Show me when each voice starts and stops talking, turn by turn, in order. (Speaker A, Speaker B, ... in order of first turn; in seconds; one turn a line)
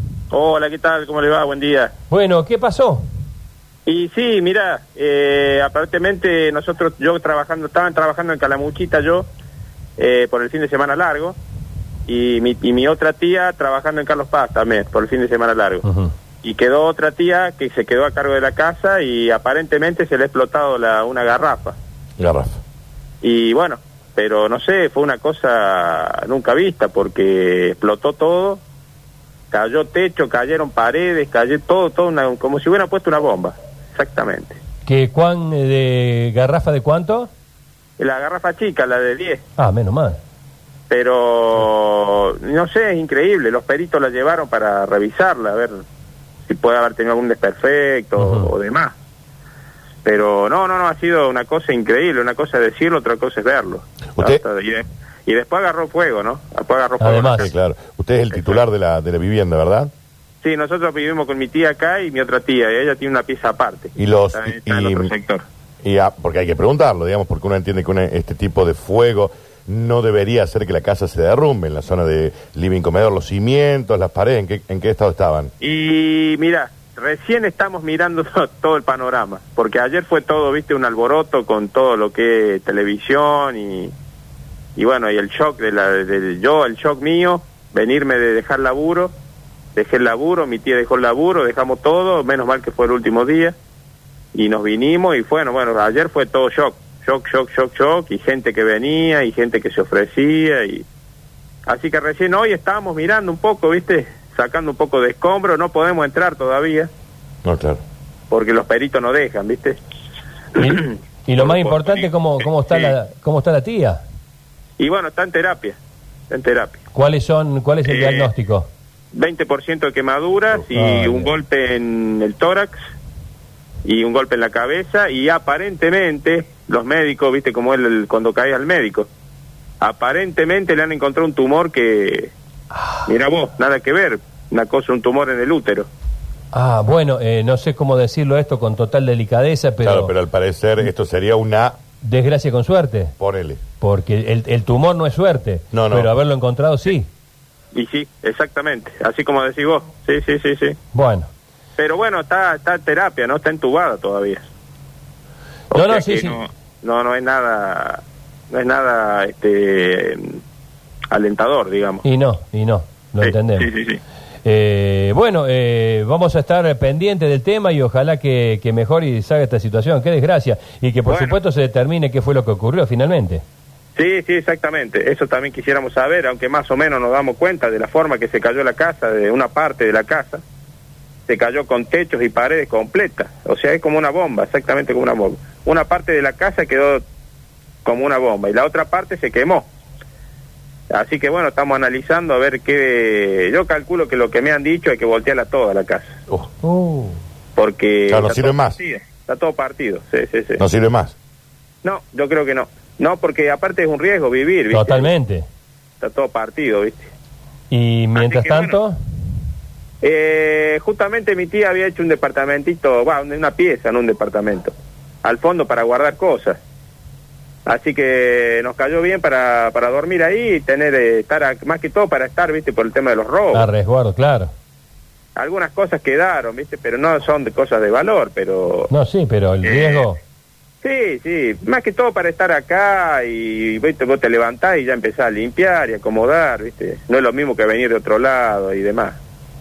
Speaker A: 0.3-1.9
Speaker B: 2.1-3.0
Speaker A: 3.9-9.3
Speaker A: 10.0-11.4
Speaker A: 12.1-15.8
Speaker B: 15.8-16.1
Speaker A: 16.4-21.8
Speaker C: 22.2-22.6
Speaker A: 23.2-28.6
Speaker A: 29.5-34.6
Speaker B: 34.9-37.3
Speaker A: 38.0-39.4
Speaker B: 39.6-40.2
Speaker A: 40.9-45.8
Speaker A: 46.5-48.9
Speaker B: 48.2-48.5
Speaker A: 50.0-57.5
Speaker C: 54.1-54.4
Speaker B: 57.0-57.5
Speaker C: 57.4-59.9
Speaker A: 58.3-58.6
Speaker A: 60.4-65.4
Speaker C: 64.0-65.1
Speaker C: 65.8-75.5
Speaker A: 75.6-83.9
Speaker A: 84.8-89.1
Speaker A: 89.8-93.5
Speaker A: 94.3-100.8
Speaker A: 101.7-106.9
Speaker C: 107.4-107.8
Speaker A: 108.3-109.8
Speaker B: 110.5-114.0
Speaker A: 110.6-112.9
Speaker A: 114.8-115.8
Speaker A: 116.3-116.8
Speaker B: 116.9-118.7
Speaker A: 117.8-118.3
Speaker A: 119.1-122.7
Speaker B: 120.7-121.3
Speaker A: 123.8-129.1
Speaker A: 129.8-132.3
Speaker A: 133.1-135.9
Speaker B: 136.5-140.1
Speaker C: 139.8-141.8
Speaker B: 142.0-143.1
Speaker C: 143.2-143.6
Speaker B: 143.8-147.1
Speaker C: 145.7-146.1
Speaker A: 147.7-150.8
Speaker B: 150.9-151.3
Speaker A: 151.8-154.4
Speaker A: 155.7-160.4
Speaker B: 155.7-156.4
Speaker A: 161.1-162.0
Speaker B: 162.0-163.7
Speaker A: 163.2-164.0
Speaker B: 164.4-173.4
Speaker A: 171.1-171.4
Speaker A: 173.9-180.4
Speaker A: 181.3-187.0
Speaker A: 187.8-189.7
Speaker A: 190.9-196.1
Speaker B: 196.6-197.2
Speaker A: 197.6-200.6
Speaker C: 198.1-198.8
Speaker C: 200.6-201.1
Speaker A: 201.8-205.1
Speaker B: 204.7-205.4
Speaker A: 206.0-207.1
Speaker B: 207.7-208.9
Speaker A: 208.1-208.8
Speaker A: 210.0-216.6
Speaker A: 217.7-223.7
Speaker B: 223.5-224.5
Speaker A: 225.3-228.9
Speaker B: 228.9-230.2
Speaker A: 229.6-230.0
Speaker A: 230.8-239.2